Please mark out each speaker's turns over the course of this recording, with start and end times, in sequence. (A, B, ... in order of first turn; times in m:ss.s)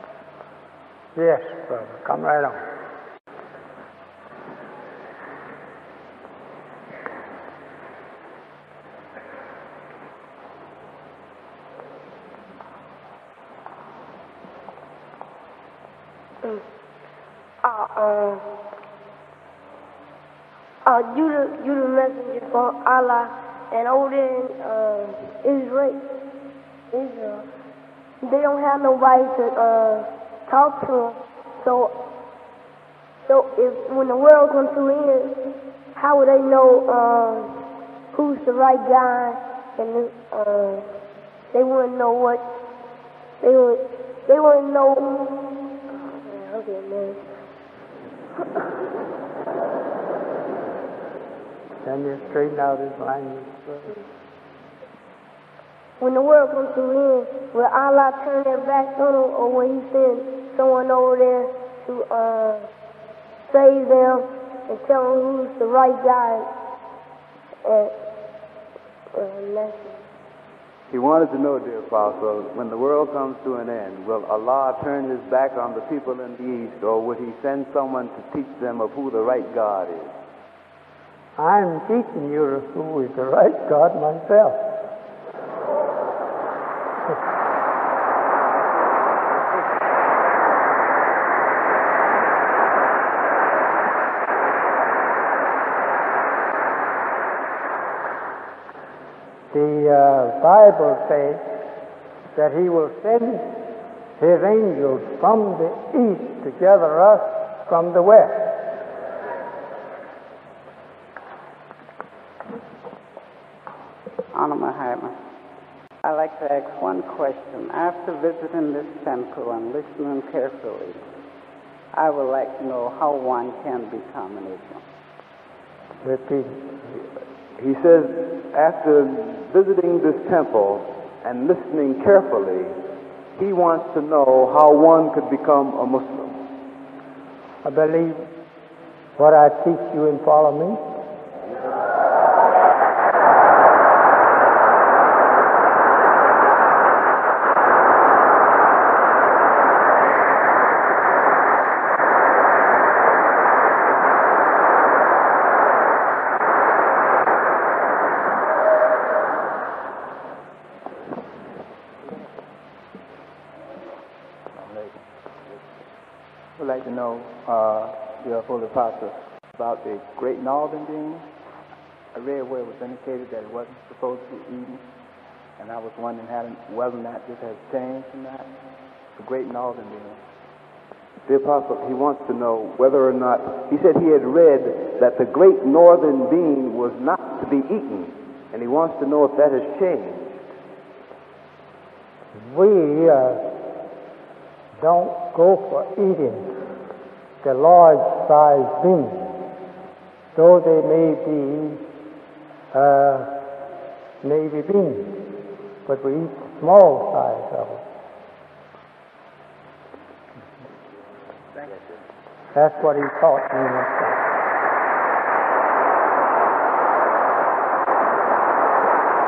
0:01.1-0:02.6 A
0:17.6-0:18.4 B
0:20.8-0:26.0 B
0:26.9-0:27.4 B
0:28.2-0:31.9 B
0:33.2-0:35.3 B
0:35.9-0:37.6 B
0:38.1-0:40.9 B
0:41.5-0:42.4 B
0:43.4-0:45.4 B
0:46.0-0:47.3 B
0:51.8-0:53.9 A
0:56.0-1:02.7 B
1:03.5-1:06.5 B
1:07.6-1:07.9 B
1:09.1-1:10.0 B
1:10.9-1:20.1 C
1:21.4-1:24.6 A
1:39.5-1:41.4 A
1:42.3-1:43.6 A
1:44.2-1:48.6 A
1:54.3-1:55.1 D
1:56.0-2:01.0 D
2:01.9-2:04.8 D
2:06.0-2:07.0 A
2:07.6-2:12.8 C
2:13.3-2:16.4 C
2:17.6-2:18.3 A
2:19.2-2:20.8 A
2:44.5-2:45.0 E
2:46.6-2:51.2 E
2:52.1-2:54.8 E
2:55.6-2:58.5 E
2:59.1-3:00.2 E
3:01.2-3:10.4 C
3:12.3-3:13.5 A
3:14.8-3:16.6 A
3:17.4-3:19.4 A
3:20.4-3:21.8 A
3:22.7-3:23.4 A
3:24.2-3:27.8 A
3:32.5-3:34.2 A